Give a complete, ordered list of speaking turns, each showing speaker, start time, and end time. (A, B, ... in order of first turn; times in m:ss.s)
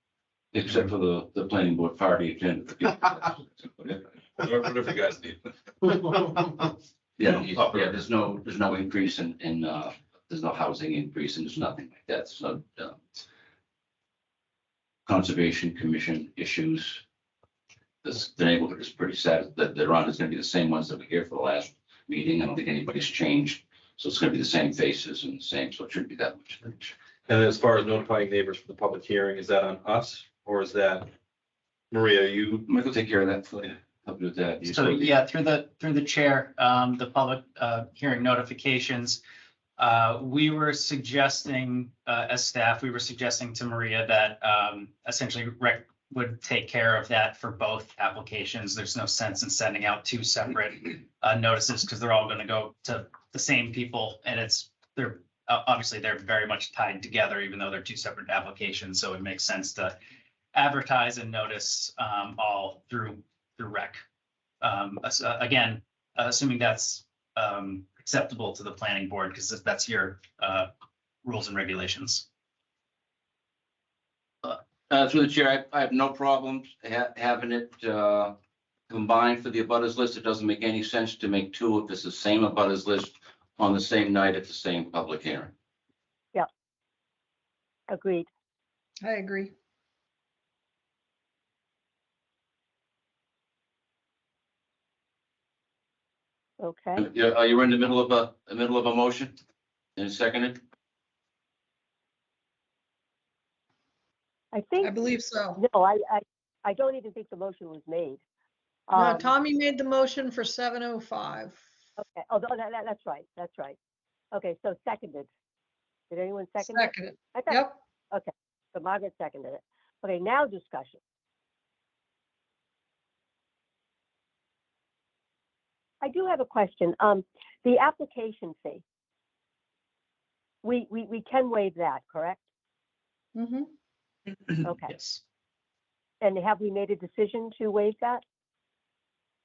0:00.5-0:04.0 A
0:04.4-0:05.4 B
0:07.2-0:13.0 A
0:07.6-0:07.9 B
0:15.1-0:17.0 A
0:18.0-0:26.9 A
0:27.3-0:31.1 B
0:31.9-0:32.7 B
0:32.7-0:35.1 A
0:34.6-0:39.2 C
0:39.8-0:59.9 C
1:00.5-1:04.0 C
1:04.6-1:10.7 C
1:11.2-1:12.2 C
1:14.4-1:18.3 A
1:18.9-1:25.5 A
1:27.9-1:28.3 D
1:29.0-1:29.5 E
1:36.6-1:37.0 D
1:37.0-1:39.4 A
1:40.0-1:40.6 A
1:44.5-1:44.9 D
1:44.8-1:45.6 E
1:45.6-1:48.2 D
1:48.9-1:49.3 D
1:48.9-1:51.6 E
1:52.0-1:53.8 D
1:54.3-1:55.3 D
1:56.1-2:01.0 D
1:56.6-1:57.8 E
2:06.0-2:08.8 D
2:10.6-2:12.4 D
2:13.3-2:13.7 E
2:14.6-2:14.9 D
2:14.9-2:15.2 C
2:16.2-2:18.2 D